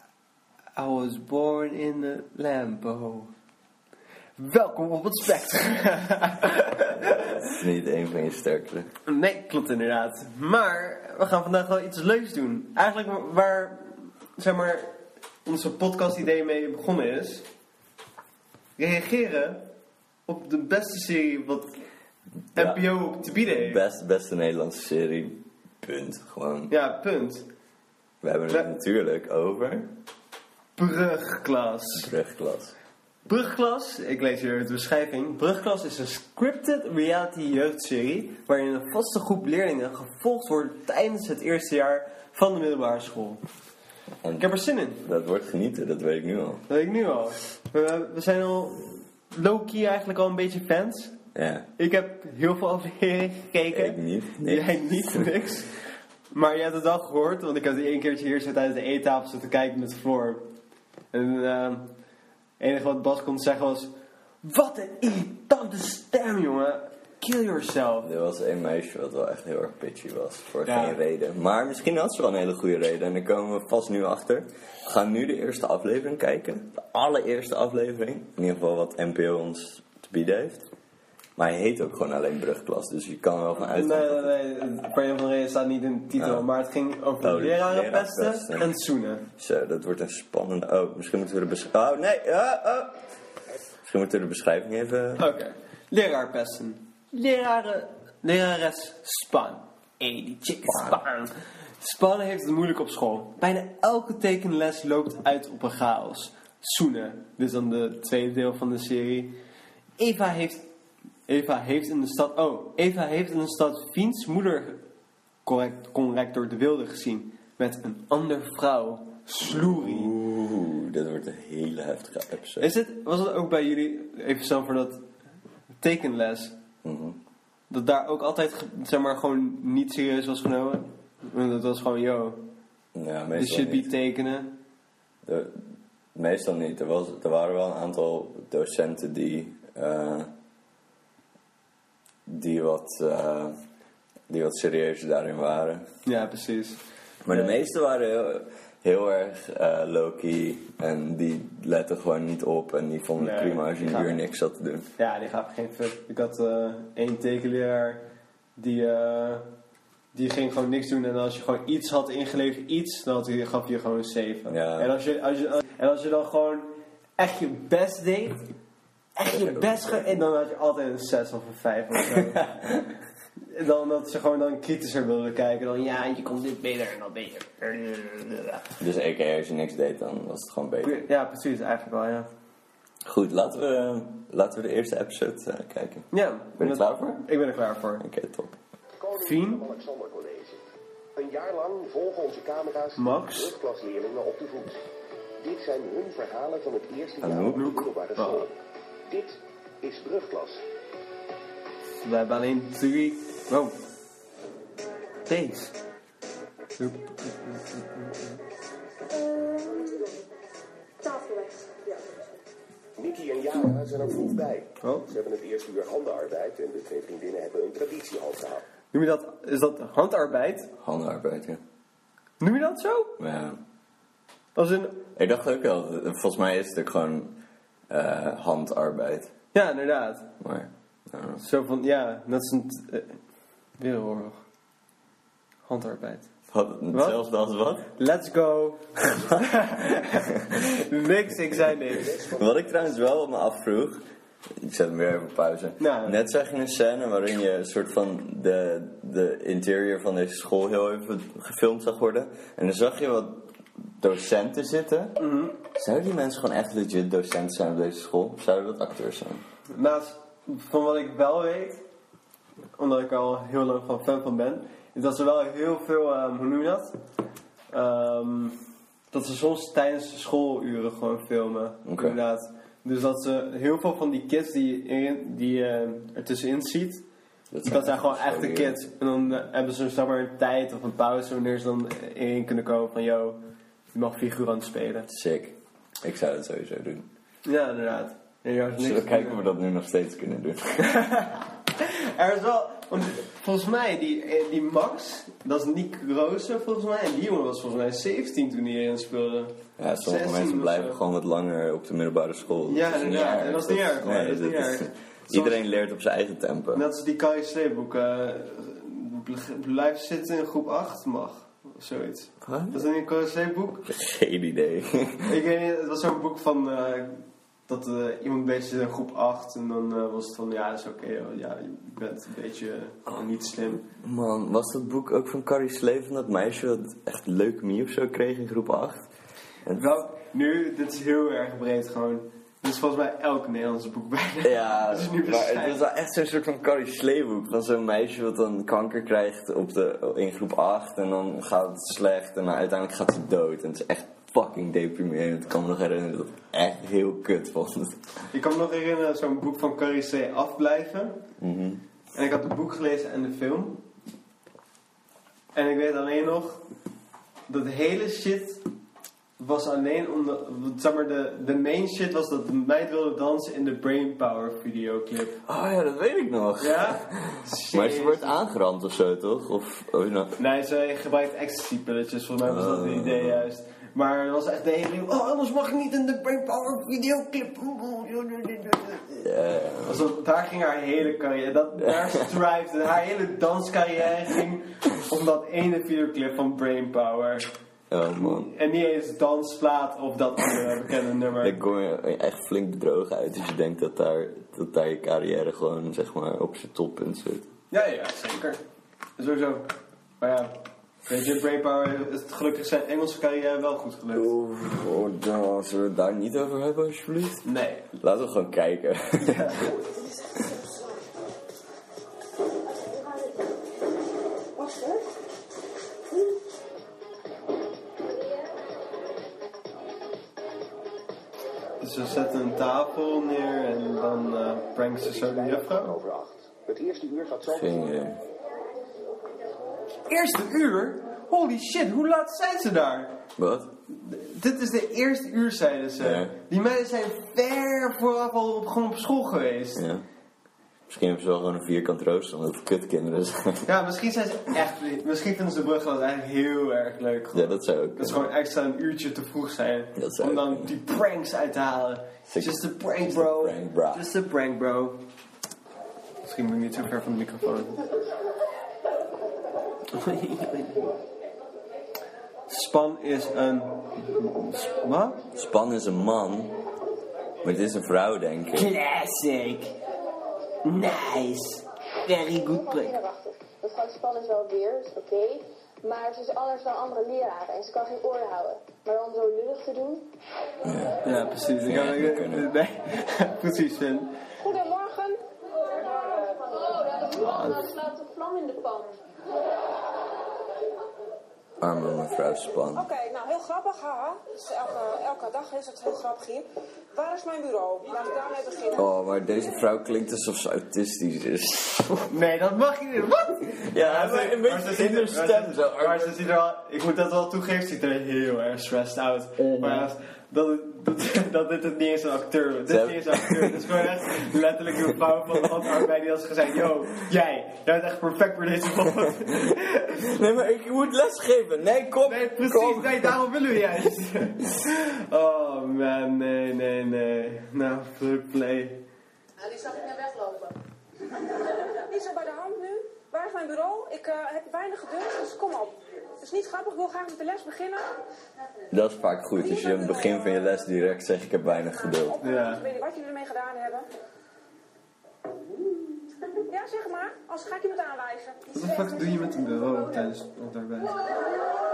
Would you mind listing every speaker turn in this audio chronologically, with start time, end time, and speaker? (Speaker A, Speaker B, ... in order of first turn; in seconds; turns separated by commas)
Speaker A: 0.8-3.3, Speaker A: 4.4-7.5, Speaker B: 7.4-8.9, Speaker A: 9.1-17.5, Speaker A: 18.8-19.7, Speaker A: 20.3-21.8, Speaker A: 22.5-23.8, Speaker B: 22.5-26.7, Speaker A: 26.7-27.4, Speaker B: 28.2-29.9, Speaker A: 28.5-28.7, Speaker A: 30.8-32.1, Speaker B: 31.9-32.7, Speaker A: 33.3-43.4, Speaker B: 44.2-46.6, Speaker A: 44.4-45.0, Speaker A: 46.7-51.2, Speaker B: 51.3-51.7, Speaker A: 51.8-55.7, Speaker B: 53.7-55.2, Speaker A: 56.3-60.5, Speaker A: 61.1-61.9, Speaker A: 62.6-63.9, Speaker A: 64.4-68.1, Speaker B: 68.0-80.7, Speaker A: 70.6-71.0, Speaker B: 81.4-84.3, Speaker A: 83.7-89.2, Speaker B: 86.2-86.5, Speaker B: 87.2-88.7, Speaker B: 89.4-93.0, Speaker B: 93.8-95.3, Speaker A: 95.2-109.3, Speaker B: 100.7-101.0, Speaker A: 110.0-110.7, Speaker A: 111.3-114.8, Speaker A: 115.4-120.1, Speaker B: 119.4-122.7, Speaker A: 122.6-125.0, Speaker A: 125.8-126.5, Speaker B: 126.8-127.2, Speaker A: 127.7-132.4, Speaker B: 132.9-133.9, Speaker A: 133.3-134.6, Speaker B: 135.2-135.6, Speaker B: 136.1-140.3, Speaker B: 142.3-143.6, Speaker B: 144.3-145.9, Speaker A: 146.0-147.6, Speaker B: 147.2-154.8, Speaker A: 153.2-154.2, Speaker A: 155.0-159.5, Speaker A: 160.1-168.5, Speaker B: 164.4-164.9, Speaker A: 169.2-172.5, Speaker B: 169.3-170.0, Speaker B: 172.1-172.9, Speaker A: 173.5-178.7, Speaker B: 178.8-181.0, Speaker A: 180.8-182.3, Speaker B: 183.0-187.3, Speaker A: 186.1-188.0, Speaker B: 188.0-188.5, Speaker C: 189.0-190.6, Speaker A: 189.2-189.7, Speaker C: 191.2-194.8, Speaker A: 192.9-193.5, Speaker C: 195.4-198.5, Speaker B: 197.2-197.9, Speaker A: 197.5-198.5, Speaker C: 199.1-200.6, Speaker A: 202.0-203.8, Speaker A: 205.3-205.7, Speaker A: 206.8-208.4, Speaker D: 209.1-210.2, Speaker D: 211.0-212.2, Speaker C: 213.0-218.6, Speaker A: 214.8-215.1, Speaker A: 218.9-220.7, Speaker B: 220.8-221.6, Speaker A: 222.4-223.2, Speaker B: 223.2-223.6, Speaker A: 224.5-225.1, Speaker B: 225.2-227.4, Speaker B: 227.9-229.3, Speaker A: 229.5-230.3, Speaker B: 230.4-231.4, Speaker A: 231.4-233.2, Speaker A: 233.8-234.4, Speaker A: 235.7-236.3, Speaker B: 236.5-237.9, Speaker A: 236.9-237.2, Speaker A: 237.9-242.2, Speaker B: 239.1-239.7, Speaker C: 242.0-242.8, Speaker B: 242.3-244.0, Speaker B: 244.6-255.2, Speaker A: 245.8-246.2, Speaker A: 255.2-255.6, Speaker B: 255.7-259.4, Speaker A: 259.7-261.8, Speaker A: 262.8-267.0, Speaker A: 267.7-268.6, Speaker A: 269.1-277.0, Speaker B: 271.9-272.2, Speaker B: 277.5-278.8, Speaker A: 277.6-285.1, Speaker B: 285.1-287.1, Speaker A: 287.4-289.4, Speaker B: 288.8-291.0, Speaker A: 290.8-301.0, Speaker B: 299.8-306.9, Speaker A: 302.7-305.6, Speaker A: 306.7-313.9, Speaker B: 312.4-312.8, Speaker B: 313.9-315.3, Speaker A: 315.2-323.8, Speaker B: 324.0-329.1, Speaker B: 329.6-330.0, Speaker A: 329.7-335.8, Speaker B: 334.4-348.0, Speaker A: 348.3-351.2, Speaker B: 351.4-351.8, Speaker A: 352.1-353.8, Speaker A: 355.5-356.6, Speaker A: 357.5-358.6, Speaker A: 359.4-365.4, Speaker B: 365.5-370.4, Speaker A: 366.6-368.4, Speaker A: 370.4-379.3, Speaker B: 372.4-373.5, Speaker B: 379.2-380.1, Speaker A: 379.8-387.5, Speaker B: 381.8-382.4, Speaker B: 387.9-388.5, Speaker A: 388.1-391.6, Speaker B: 391.4-397.5, Speaker A: 397.7-398.6, Speaker A: 399.2-399.7, Speaker A: 400.2-404.3, Speaker B: 404.1-407.4, Speaker A: 407.4-407.9, Speaker B: 408.0-409.5, Speaker A: 409.3-409.7, Speaker A: 421.8-426.0, Speaker C: 425.0-427.9, Speaker B: 427.5-428.2, Speaker A: 430.1-433.2, Speaker B: 433.4-433.7, Speaker A: 433.9-439.8, Speaker B: 436.0-436.3, Speaker B: 439.8-440.1, Speaker B: 440.9-443.7, Speaker A: 443.6-455.0, Speaker B: 447.3-448.3, Speaker B: 449.9-450.7, Speaker B: 452.3-454.1, Speaker A: 456.2-457.8, Speaker A: 459.9-460.9, Speaker A: 462.5-465.2, Speaker B: 465.3-466.6, Speaker B: 467.4-468.7, Speaker A: 468.5-469.7, Speaker A: 470.6-473.0, Speaker D: 472.2-480.1, Speaker B: 480.6-482.5, Speaker A: 481.0-484.1, Speaker E: 484.4-485.2, Speaker D: 486.5-489.0, Speaker A: 487.1-487.7, Speaker B: 491.6-492.8, Speaker E: 492.7-498.9, Speaker B: 498.8-502.1, Speaker A: 502.1-520.1, Speaker B: 503.7-506.2, Speaker B: 509.4-509.9, Speaker B: 512.7-514.2, Speaker B: 515.4-515.8, Speaker B: 520.0-523.1, Speaker A: 522.0-528.8, Speaker E: 531.9-537.9, Speaker B: 538.7-542.2, Speaker E: 539.4-540.6, Speaker E: 541.6-543.9, Speaker A: 542.2-542.6, Speaker E: 546.5-548.5, Speaker A: 548.5-550.9